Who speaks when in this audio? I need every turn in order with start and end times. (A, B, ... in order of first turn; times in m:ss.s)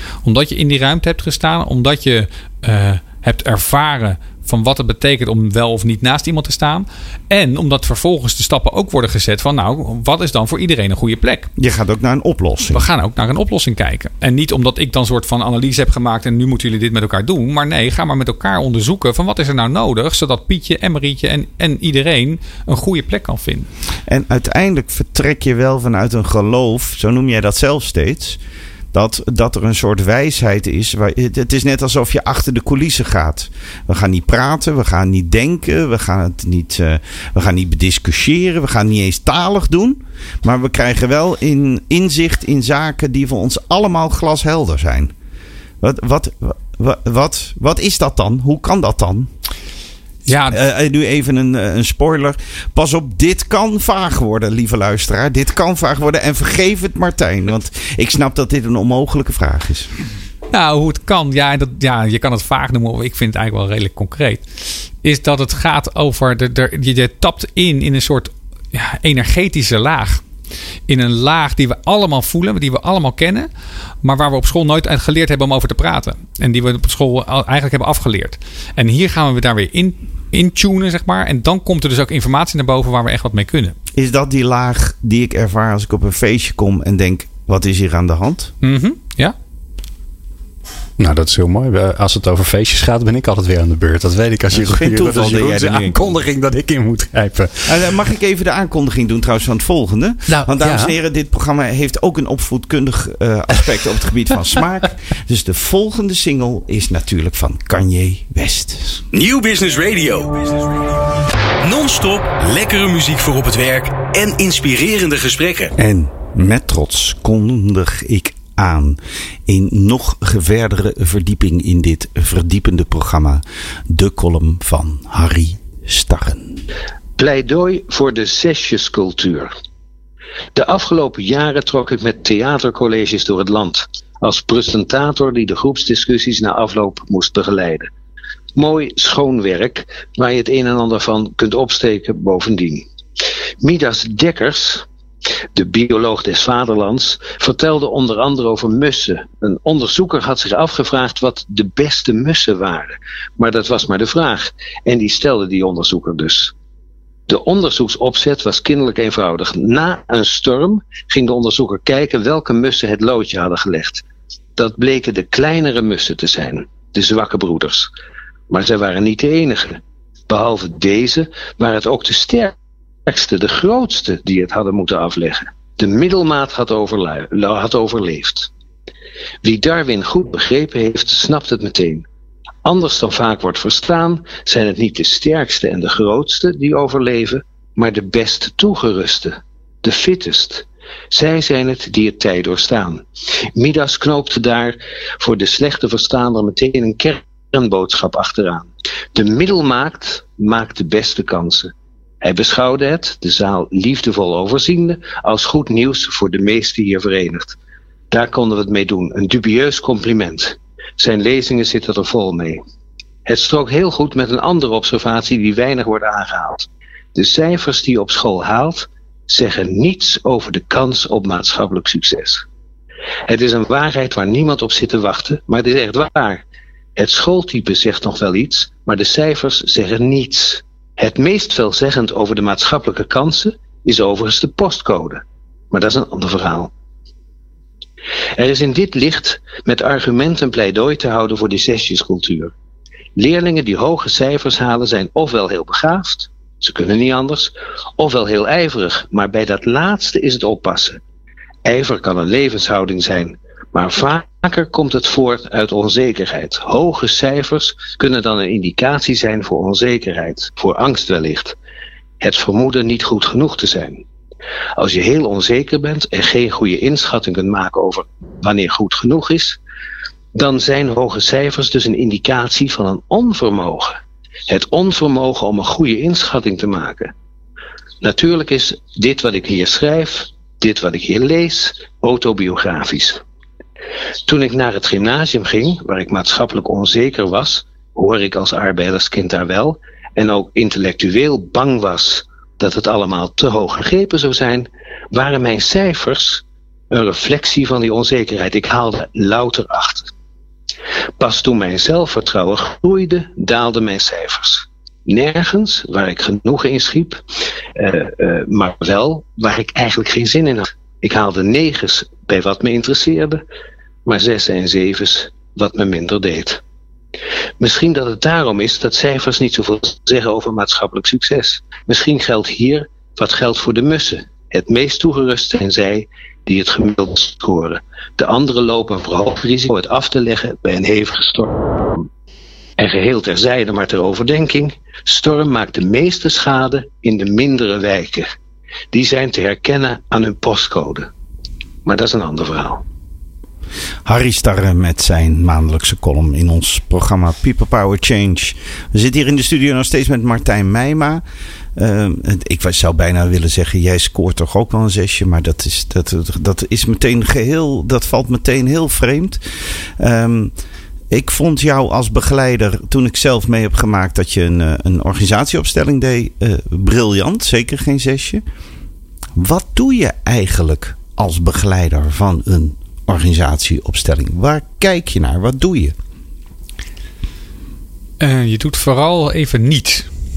0:00.2-0:11.5 A
0:11.6-0:12.8 B
0:12.7-0:23.7 A
0:24.1-0:28.4 B
0:28.9-0:45.1 B
0:45.8-0:49.3 B
0:50.3-0:50.6 A
0:50.5-0:59.9 B
1:00.5-1:04.4 A
1:05.0-1:10.2 A
1:10.9-1:13.5 A
1:14.0-1:23.7 A
1:24.0-1:28.5 B
1:28.6-1:29.3 A
1:31.0-1:37.8 C
1:34.5-1:36.2 B
1:37.6-1:49.0 B
1:40.3-1:40.9 C
1:49.1-1:50.9 D
1:51.6-1:55.7 D
1:55.8-2:06.6 B
2:07.2-2:09.5 E
2:10.5-2:17.9 E
2:18.5-2:22.9 E
2:23.6-2:24.8 E
2:25.5-2:36.5 E
2:37.3-2:44.0 E
2:44.6-2:47.9 E
2:48.5-2:52.5 E
2:53.0-2:58.5 E
2:59.4-3:02.0 E
3:02.6-3:13.0 E
3:13.6-3:21.7 E
3:22.2-3:27.6 E
3:28.1-3:32.6 E
3:33.2-3:42.4 E
3:43.3-3:46.4 E
3:47.0-3:56.7 E
3:58.4-4:02.5 E
4:03.2-4:11.0 E
4:11.6-4:21.6 E
4:22.2-4:24.0 E
4:24.8-4:29.6 E
4:30.3-4:37.1 E
4:38.0-4:43.2 E
4:44.2-5:00.1 E
5:01.2-5:07.2 E
5:07.8-5:13.4 E
5:14.0-5:16.6 E
5:17.6-5:32.1 E
5:32.8-5:38.3 E
5:38.9-5:41.1 E
5:41.8-5:42.8 E
5:44.0-5:51.2 B
5:51.8-5:59.4 B
6:00.0-6:00.5 B
6:01.1-6:08.4 B
6:09.4-6:15.9 B
6:18.2-6:20.1 A